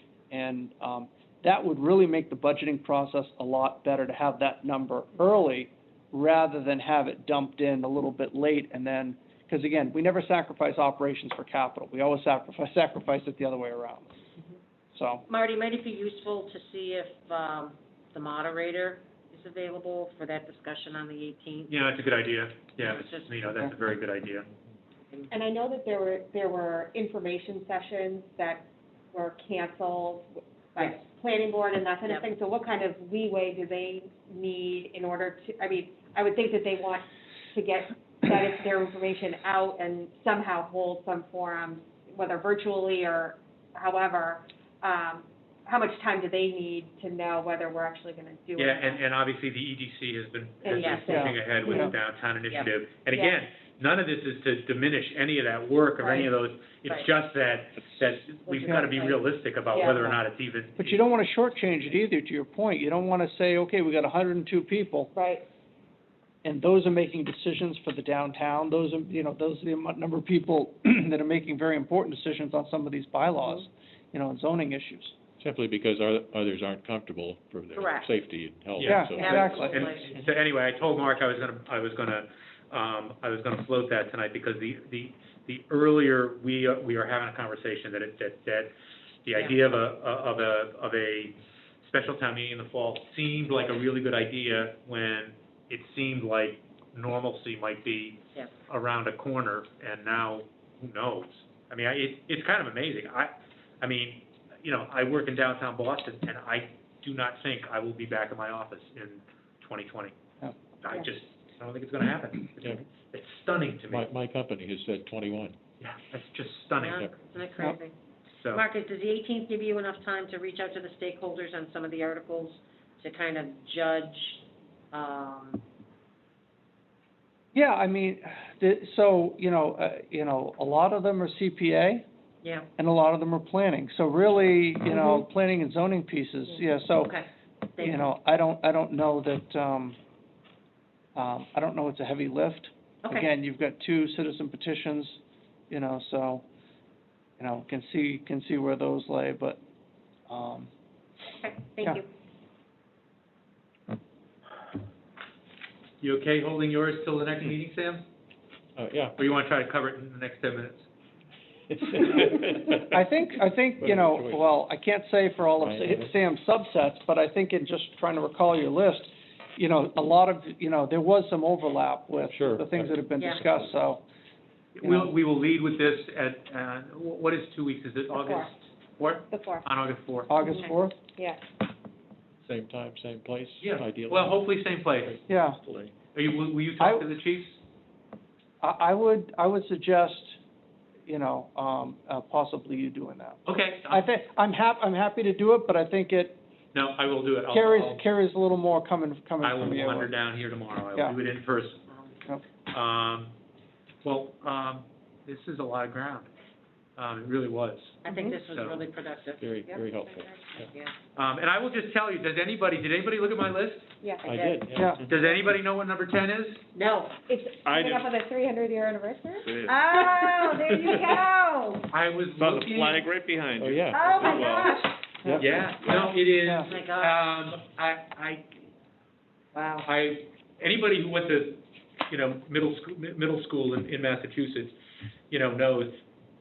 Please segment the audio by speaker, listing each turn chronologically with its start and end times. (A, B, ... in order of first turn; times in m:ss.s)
0:00.3-0:14.1 A
0:14.9-0:15.2 A
0:15.3-0:21.9 B
0:21.7-0:24.5 C
0:22.8-0:23.7 B
0:25.3-0:49.0 D
0:48.6-1:01.0 C
0:50.6-0:51.9 D
0:50.7-0:51.1 B
0:51.1-0:51.9 A
0:53.1-0:53.4 D
0:56.0-0:56.3 D
0:58.5-0:59.2 B
0:59.7-1:00.1 D
1:00.8-1:05.1 A
1:05.2-1:05.4 D
1:06.4-1:15.1 A
1:15.4-1:19.5 E
1:17.8-1:18.1 B
1:18.8-1:19.8 A
1:19.2-1:20.2 B
1:19.4-1:28.7 C
1:29.3-1:50.1 C
1:29.3-1:29.6 B
1:50.8-1:54.1 C
1:53.9-1:55.6 E
1:55.8-1:57.0 C
1:56.8-1:58.0 B
1:58.5-2:05.6 B
2:07.5-2:12.0 A
2:12.4-2:12.7 B
2:12.8-2:17.2 A
2:17.0-2:18.0 B
2:17.8-2:20.0 A
2:21.2-2:25.2 A
2:25.7-2:26.4 A
2:27.4-2:29.6 A
2:30.3-2:30.7 A
2:31.4-2:32.0 B
2:36.0-2:38.0 C
2:38.8-2:39.2 E
2:39.2-2:40.9 C
2:41.7-2:43.0 E
2:42.8-2:54.0 A
2:43.8-2:44.4 E
2:45.6-2:46.1 E
2:52.2-2:53.8 E
2:54.8-3:00.3 C
2:54.8-2:55.1 A
2:58.1-2:58.5 D
2:59.3-2:59.7 D
3:00.3-3:01.0 A
3:00.4-3:01.4 D
3:02.4-3:04.4 E
3:03.6-3:05.2 C
3:05.0-3:06.0 E
3:05.3-3:05.6 A
3:06.1-3:07.6 C
3:06.8-3:07.1 A
3:08.6-3:10.4 A
3:11.1-3:16.4 A
3:13.5-3:14.0 C
3:16.7-3:18.0 C
3:17.5-3:20.1 A
3:19.4-3:21.8 C
3:22.7-3:23.3 C
3:24.0-3:26.3 C
3:27.0-3:28.8 C
3:28.0-3:30.9 B
3:28.1-3:28.4 A
3:29.4-3:30.7 E
3:31.2-3:33.9 C
3:34.2-3:34.7 B
3:34.2-3:35.0 E
3:35.0-3:36.6 C
3:36.8-3:37.2 B
3:37.3-3:41.9 D
3:37.6-3:38.1 F
3:39.4-3:41.2 F
3:41.9-3:43.0 C
3:42.4-3:44.9 F
3:43.6-3:44.4 E
3:43.9-3:44.9 D
3:45.4-3:48.5 C
3:45.8-3:46.2 F
3:46.4-3:46.7 A
3:46.6-3:47.2 B
3:49.5-3:49.8 B
3:49.7-3:54.7 C
3:55.3-3:56.0 C